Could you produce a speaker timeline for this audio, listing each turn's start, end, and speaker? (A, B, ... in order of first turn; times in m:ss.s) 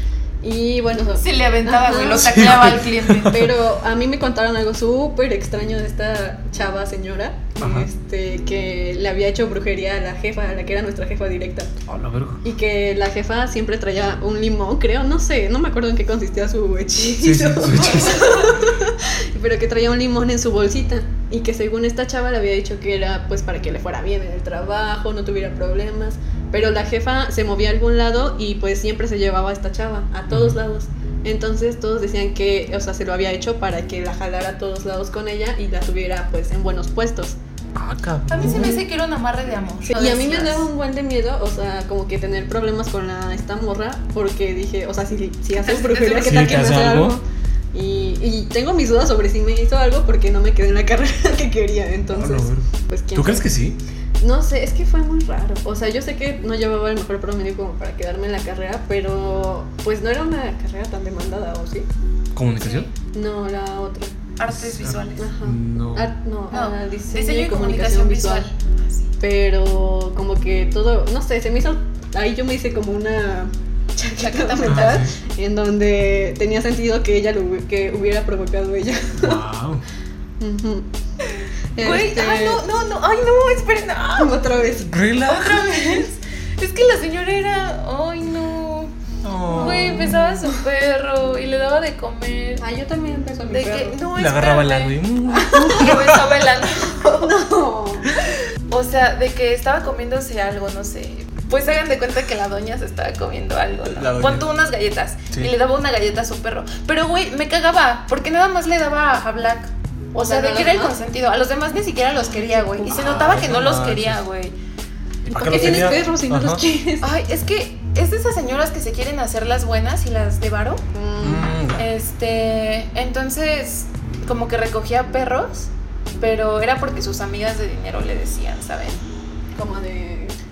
0:00.4-0:02.6 A
0:01.2-0:03.5 B
0:02.3-0:03.3 C
0:03.2-0:11.7 A
0:07.6-0:07.9 C
0:11.9-0:12.4 C
0:12.4-0:37.4 A
0:17.2-0:18.5 C
0:30.3-0:30.6 C
0:37.8-0:38.8 C
0:38.3-0:40.7 B
0:38.4-0:38.8 A
0:39.8-0:53.5 A
0:45.5-0:46.7 B
0:46.2-0:47.2 C
0:52.1-0:53.8 C
0:54.2-1:01.9 A
1:02.3-1:02.9 C
1:02.6-1:02.9 B
1:03.1-1:04.2 A
1:04.4-1:05.3 B
1:04.5-1:06.1 C
1:05.2-1:08.5 A
1:06.5-1:09.1 B
1:09.2-1:19.4 A
1:14.2-1:15.0 B
1:14.6-1:15.1 C
1:19.2-1:19.8 C
1:20.4-1:20.9 A
1:21.3-1:24.4 B
1:21.7-1:22.6 A
1:24.2-1:24.9 A
1:24.9-1:25.7 C
1:25.2-1:28.9 B
1:29.2-1:30.2 C
1:29.5-1:30.6 A
1:29.5-1:32.6 B
1:32.6-1:34.0 A
1:33.5-1:37.3 B
1:34.2-1:36.3 C
1:37.0-1:38.1 A
1:38.7-1:54.5 B
1:43.9-1:44.4 C
1:50.1-1:51.0 A
1:52.4-1:52.9 A
1:52.9-1:54.2 C
1:55.2-1:56.6 C
1:55.3-1:57.1 A
1:55.5-1:55.8 B
1:57.0-2:00.8 B
2:00.9-2:01.5 A
2:01.2-2:01.8 C
2:01.8-2:05.7 B
2:06.2-2:09.0 B
2:09.5-2:10.3 A